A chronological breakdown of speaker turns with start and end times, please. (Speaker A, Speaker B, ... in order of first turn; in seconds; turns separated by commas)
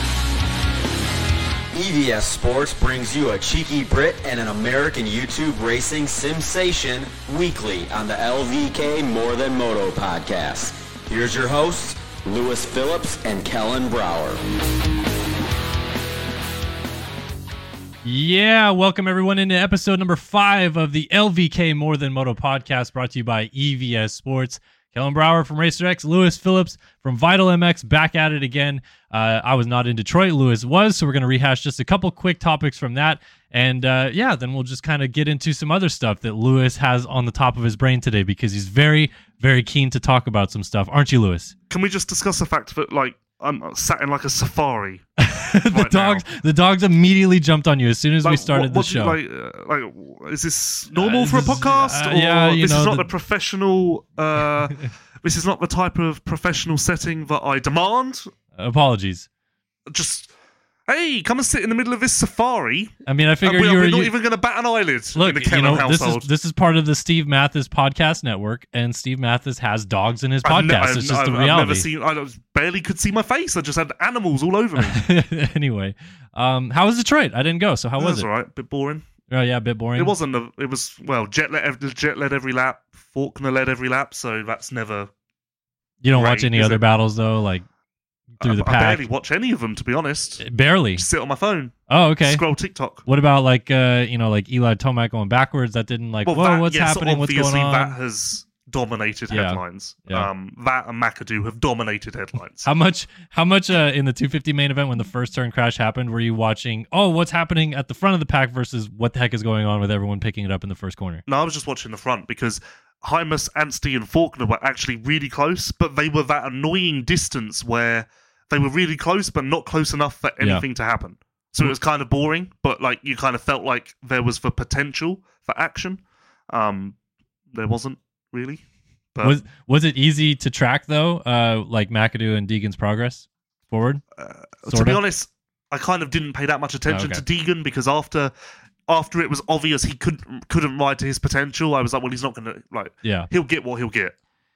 Speaker A: 1.7-14.4, Speaker B: 18.0-41.5, Speaker C: 41.7-45.1, Speaker B: 45.2-49.2, Speaker C: 45.7-46.2, Speaker C: 48.2-58.3, Speaker B: 51.0-53.1, Speaker B: 58.6-59.3, Speaker C: 59.9-60.3, Speaker C: 60.9-66.3, Speaker B: 63.1-64.1, Speaker B: 65.2-71.9, Speaker C: 70.4-75.0, Speaker B: 74.8-78.3, Speaker C: 78.0-79.1, Speaker B: 79.3-80.1, Speaker C: 80.0-85.1, Speaker B: 86.0-87.7, Speaker C: 86.1-86.8, Speaker B: 88.4-89.0, Speaker C: 88.4-90.4, Speaker B: 90.4-91.1, Speaker C: 91.0-93.0, Speaker B: 91.9-92.5, Speaker B: 93.1-98.0, Speaker C: 96.2-102.7, Speaker B: 99.3-100.3, Speaker B: 102.7-111.2, Speaker C: 111.3-127.0, Speaker C: 127.5-128.6, Speaker C: 129.1-129.4, Speaker B: 129.2-134.0, Speaker C: 134.2-138.3, Speaker B: 134.7-135.0, Speaker B: 136.9-137.2, Speaker C: 138.9-144.2, Speaker B: 143.0-143.3